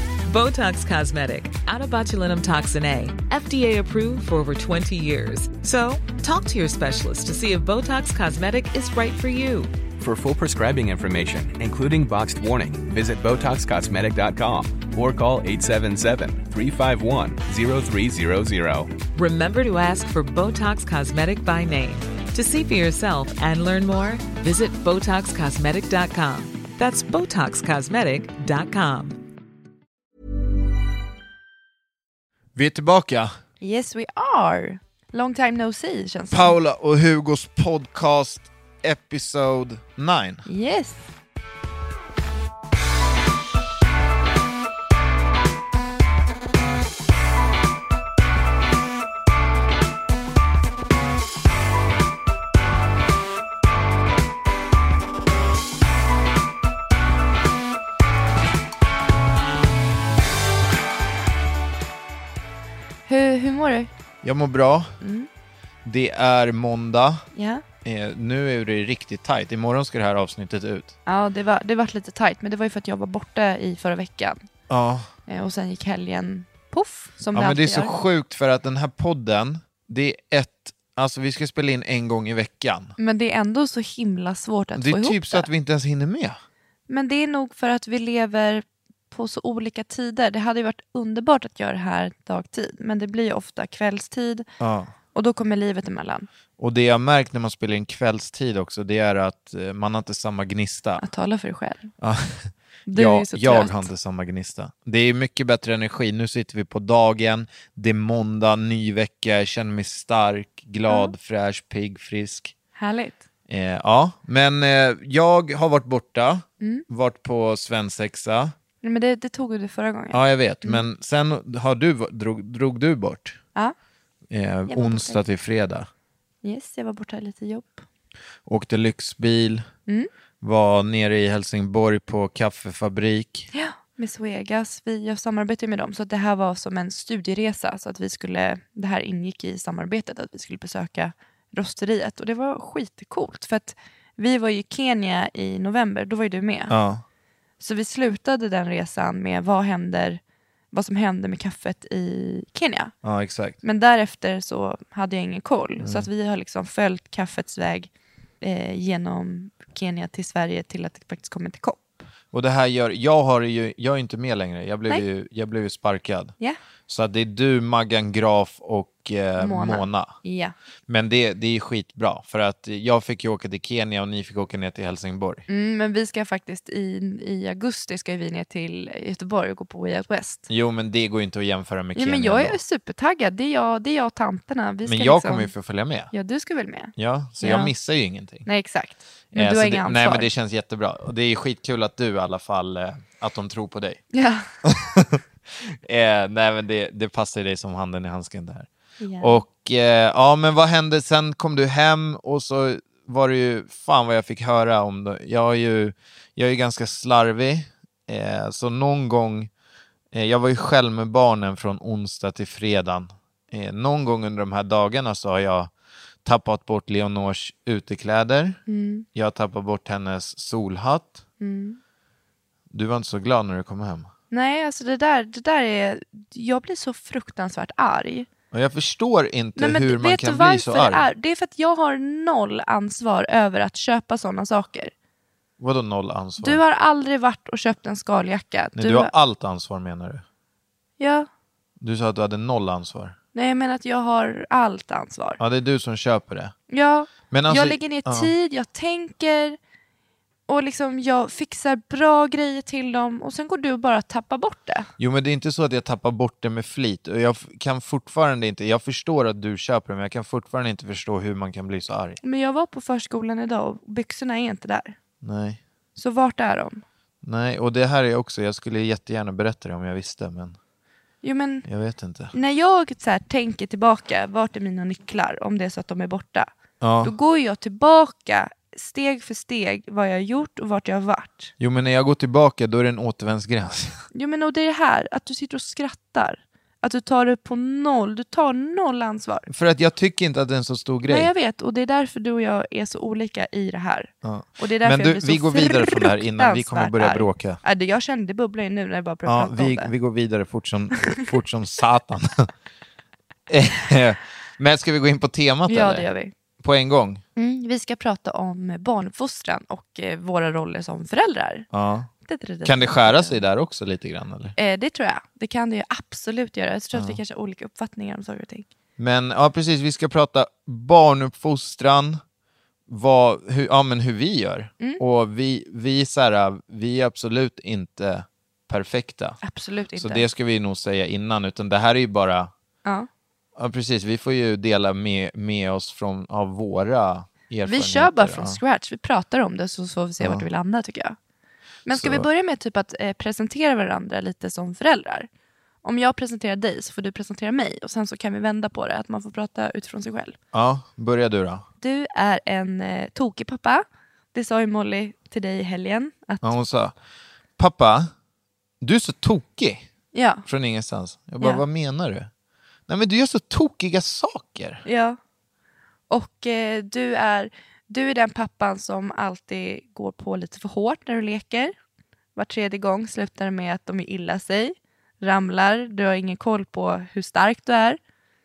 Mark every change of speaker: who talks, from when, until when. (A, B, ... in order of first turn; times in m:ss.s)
0:00.3-0:09.7 A
0:10.0-0:18.9 B
0:19.1-0:29.2 A
0:32.6-0:33.4 C
0:33.6-0:36.6 D
0:36.3-0:40.4 C
0:40.5-0:41.1 D
1:03.1-1:03.9 D
1:04.2-1:04.9 C
1:05.0-1:05.3 D
1:05.8-1:07.2 C
1:07.3-1:07.6 D
1:07.8-1:11.0 C
1:11.1-1:14.4 D
1:14.7-1:15.1 C
1:15.3-1:17.9 D
1:17.3-1:23.0 C
1:23.0-1:25.5 D
1:24.8-1:26.4 C
1:26.9-1:34.5 D
1:34.6-1:34.9 C
1:35.1-1:36.3 D
1:36.6-1:41.0 C
1:41.0-1:41.9 D
1:42.0-1:52.5 C
1:42.9-1:43.9 D
1:50.9-1:51.1 D
1:52.8-1:53.2 D
1:53.5-1:58.5 C
1:58.8-2:00.9 D
2:00.1-2:03.4 C
2:04.3-2:05.9 C
2:04.7-2:05.2 D
2:06.4-2:07.8 D
2:08.5-2:09.7 C
2:10.4-2:13.5 C
2:13.5-2:26.8 D
2:26.7-2:27.0 C
2:27.6-2:30.2 D
2:30.7-2:32.9 D
2:33.0-2:33.6 C
2:33.6-2:37.9 D
2:35.8-2:36.1 C
2:38.4-2:41.9 D
2:42.3-2:46.4 C
2:46.9-2:50.2 C
2:49.4-2:50.6 D
2:50.9-2:55.5 C
2:55.5-3:00.5 D
3:00.5-3:02.6 C
3:02.0-3:05.5 D
3:04.9-3:06.1 C
3:06.1-3:07.7 D
3:07.0-3:08.5 C
3:08.5-3:10.3 D
3:09.3-3:14.0 C
3:14.1-3:14.5 D
3:14.6-3:18.7 C
3:19.0-3:19.4 D
3:19.2-3:29.5 C
3:30.1-3:35.7 C
3:36.2-3:38.6 C
3:38.7-3:39.1 D
3:39.1-3:41.2 C
3:41.4-3:41.8 D
3:42.7-3:44.1 C
3:44.3-3:48.3 D
3:48.5-3:51.1 C
3:49.6-3:54.9 D
3:55.6-3:56.6 C
3:56.4-3:59.1 D
3:58.8-4:00.2 C
4:01.0-4:01.3 D
4:01.8-4:03.2 C
4:03.3-4:05.4 D
4:05.4-4:06.6 C
4:06.7-4:09.6 D
4:07.3-4:08.3 C
4:10.5-4:14.9 D
4:15.0-4:22.2 C
4:22.2-4:25.0 D
4:25.2-4:25.6 C
4:26.0-4:26.8 D
4:27.2-4:30.6 C
4:31.2-4:31.7 D
4:31.6-4:32.3 C
4:32.3-4:36.5 D
4:36.8-4:37.1 C
4:37.0-4:41.5 D
4:41.6-4:44.0 C
4:44.1-4:49.5 D
4:49.5-4:51.3 C
4:51.1-4:59.9 D
4:54.2-4:57.6 C
4:59.3-5:02.5 C
5:03.5-5:06.1 C
5:05.7-5:06.3 D
5:06.6-5:07.2 C
5:07.4-5:11.7 D
5:11.7-5:12.1 C
5:12.2-5:13.4 D
5:12.6-5:14.6 C
5:14.6-5:18.7 D
5:16.9-5:17.2 C
5:19.0-5:22.2 C
5:22.9-5:29.4 C
5:29.4-5:30.3 D
5:30.0-5:32.5 C
5:33.6-5:38.6 C
5:37.7-5:41.2 D
5:41.8-5:45.3 D
5:41.9-5:42.3 C
5:45.8-5:50.4 D
5:50.5-5:51.7 C
5:51.8-5:56.5 D
5:56.4-5:57.0 C
5:57.6-5:58.1 C
5:58.8-5:59.9 C
6:00.1-6:00.4 D
6:00.5-6:02.3 C
6:02.9-6:04.8 C
6:04.8-6:05.2 D
6:06.1-6:11.7 D
6:12.4-6:18.0 D